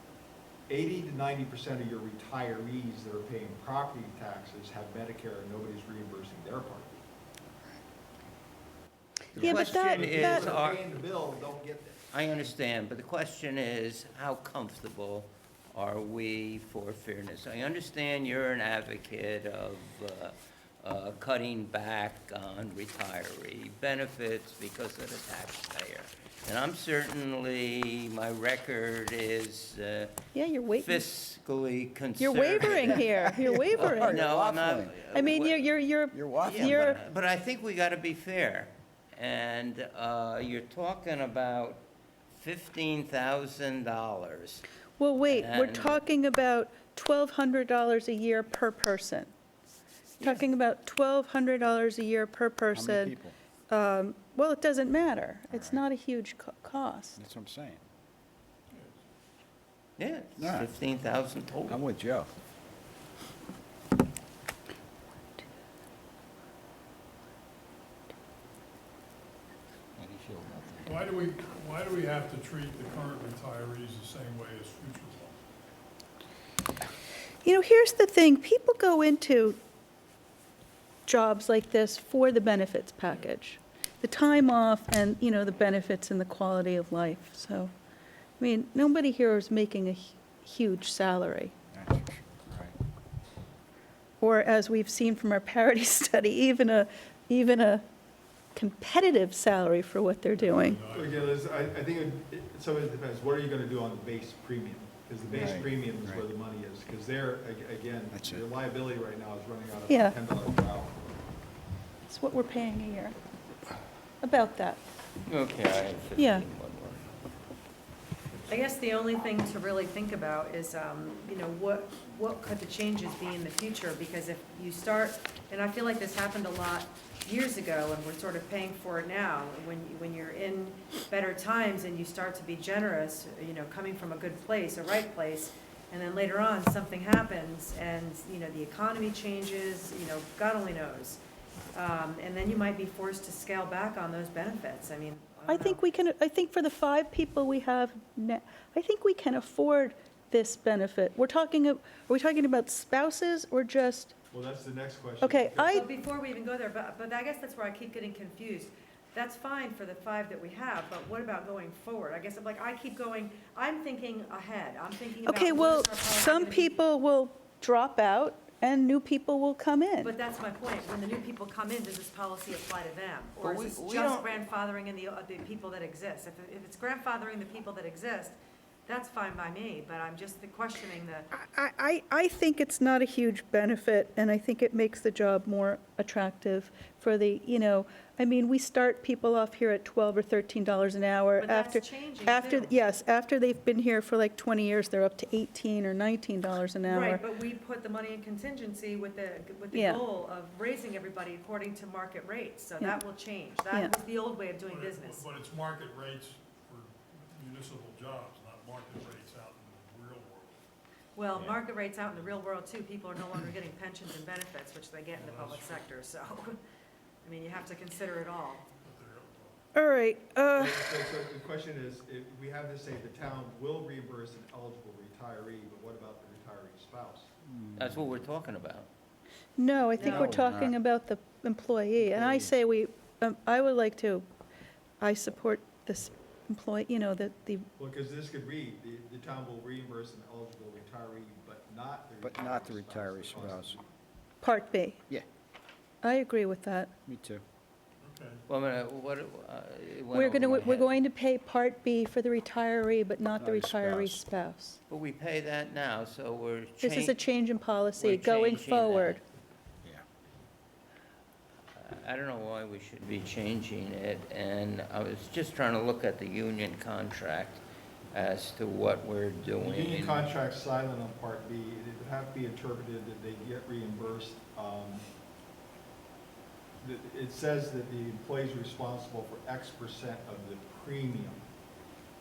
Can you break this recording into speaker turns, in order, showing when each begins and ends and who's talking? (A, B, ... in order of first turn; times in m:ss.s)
0:00.7-0:06.9 A
0:09.3-0:10.6 B
0:09.3-0:10.8 C
0:09.3-0:12.0 A
0:12.1-0:30.1 C
0:30.3-0:31.0 B
0:30.7-0:35.7 C
0:32.2-0:34.2 B
0:33.0-0:35.0 D
0:35.1-0:37.0 B
0:36.1-0:37.0 D
0:36.4-0:44.6 C
0:45.0-0:49.3 B
0:45.3-0:46.0 C
0:50.2-0:53.2 B
0:52.7-0:53.3 D
0:53.7-0:57.2 B
0:55.5-0:55.8 D
0:57.2-0:57.8 D
1:00.0-1:01.8 C
1:00.4-1:00.7 D
1:01.7-1:02.3 D
1:10.0-1:10.9 C
1:10.8-1:15.4 E
1:17.4-1:19.6 B
1:21.1-1:27.7 B
1:28.4-1:31.5 B
1:31.7-1:32.7 D
1:34.2-1:37.8 B
1:38.5-1:40.8 B
1:40.4-1:41.4 E
1:40.9-1:51.0 A
1:45.3-1:46.3 D
1:48.1-1:48.4 D
1:49.9-1:50.1 B
1:52.1-1:53.2 B
1:54.2-1:54.8 B
1:55.2-1:57.1 C
1:56.2-1:56.4 B
1:58.5-2:21.2 F
2:21.7-2:25.8 F
2:25.5-2:34.1 B
2:34.3-2:35.8 A
2:35.2-2:35.9 B
2:35.7-2:46.8 F
2:45.2-2:50.1 B
2:50.0-3:01.3 F
2:53.4-2:54.3 C
3:01.3-3:17.3 B
3:11.4-3:12.8 F
3:16.8-3:25.3 F
3:19.7-3:20.0 B
3:23.7-3:24.0 B
3:24.6-3:30.6 E
3:31.1-3:36.6 F
3:35.1-3:35.9 E
3:37.2-3:38.7 F
3:38.8-3:39.6 E
3:39.7-3:40.8 B
3:40.6-3:47.3 A
3:47.4-3:48.1 D
3:47.8-3:48.9 C
3:49.6-3:54.2 B
3:50.0-3:50.4 F
3:50.0-3:50.7 D
3:52.1-3:52.5 D
3:55.0-3:57.7 B
3:57.8-4:03.8 A
4:02.2-4:03.8 D
4:04.4-4:05.0 B
4:06.0-4:06.9 B
4:07.0-4:07.4 D
4:08.0-4:08.4 E
4:08.5-4:10.9 C
4:10.1-4:14.8 B
4:13.4-4:14.2 D
4:14.9-4:17.2 C
4:16.8-4:19.2 B
4:18.0-4:19.2 C
4:21.7-4:27.6 C
4:28.1-4:30.3 C
4:29.6-4:35.0 A
4:36.8-4:41.4 A